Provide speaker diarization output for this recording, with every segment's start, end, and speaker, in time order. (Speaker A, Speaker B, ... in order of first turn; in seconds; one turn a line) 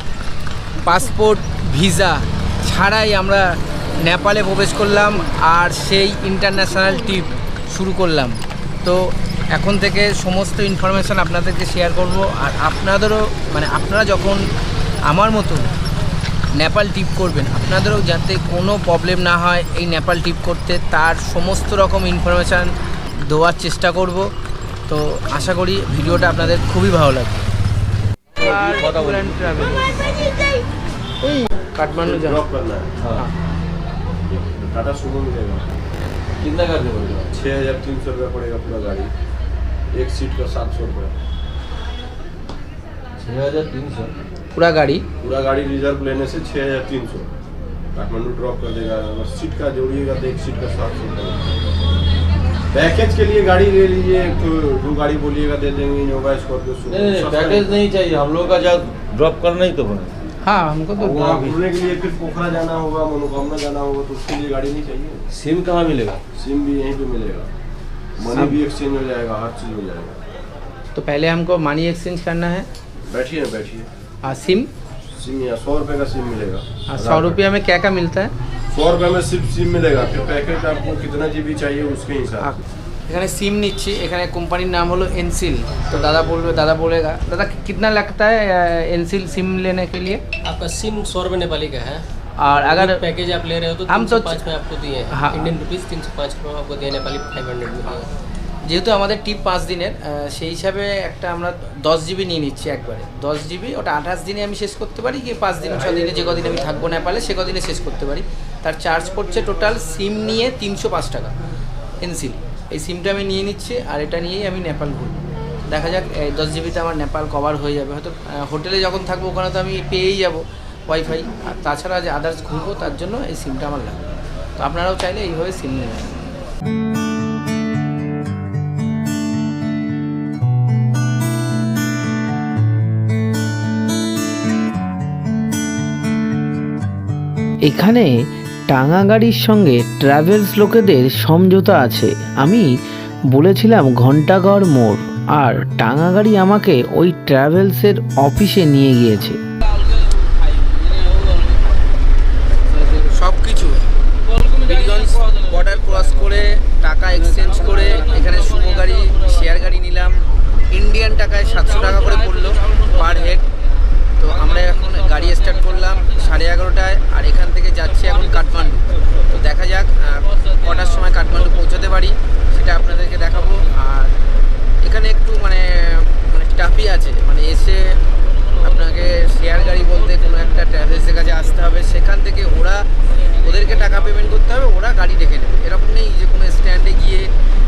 Speaker A: 0.8-14.4
Speaker A: 15.1-15.7
Speaker A: 16.6-22.8
Speaker A: 23.2-24.3
Speaker A: 24.9-27.5
Speaker A: 28.4-29.9
Speaker B: 28.4-29.5
Speaker A: 31.2-32.4
Speaker C: 32.0-32.9
Speaker C: 34.3-35.7
Speaker B: 36.4-37.3
Speaker C: 37.3-39.1
Speaker C: 39.9-41.1
Speaker B: 43.2-44.1
Speaker A: 44.5-45.0
Speaker C: 45.2-47.3
Speaker C: 47.9-51.5
Speaker C: 52.7-57.8
Speaker B: 56.9-60.1
Speaker A: 60.4-61.5
Speaker B: 61.0-61.6
Speaker C: 61.2-65.2
Speaker B: 65.3-66.2
Speaker C: 66.3-67.5
Speaker C: 68.2-70.2
Speaker A: 70.9-72.7
Speaker C: 73.1-73.9
Speaker A: 74.2-74.7
Speaker C: 75.2-77.4
Speaker A: 76.9-78.3
Speaker C: 78.7-82.5
Speaker A: 82.4-90.2
Speaker D: 90.4-92.0
Speaker A: 92.4-93.0
Speaker D: 92.6-98.0
Speaker A: 93.9-94.4
Speaker A: 95.1-95.5
Speaker A: 98.7-111.3
Speaker A: 112.0-124.0
Speaker A: 124.6-126.2
Speaker E: 137.7-138.1
Speaker E: 138.7-142.7
Speaker E: 143.3-149.4
Speaker A: 152.7-153.8
Speaker A: 154.5-163.4
Speaker A: 164.2-174.2
Speaker A: 174.8-178.0
Speaker A: 178.6-182.8
Speaker A: 183.4-187.3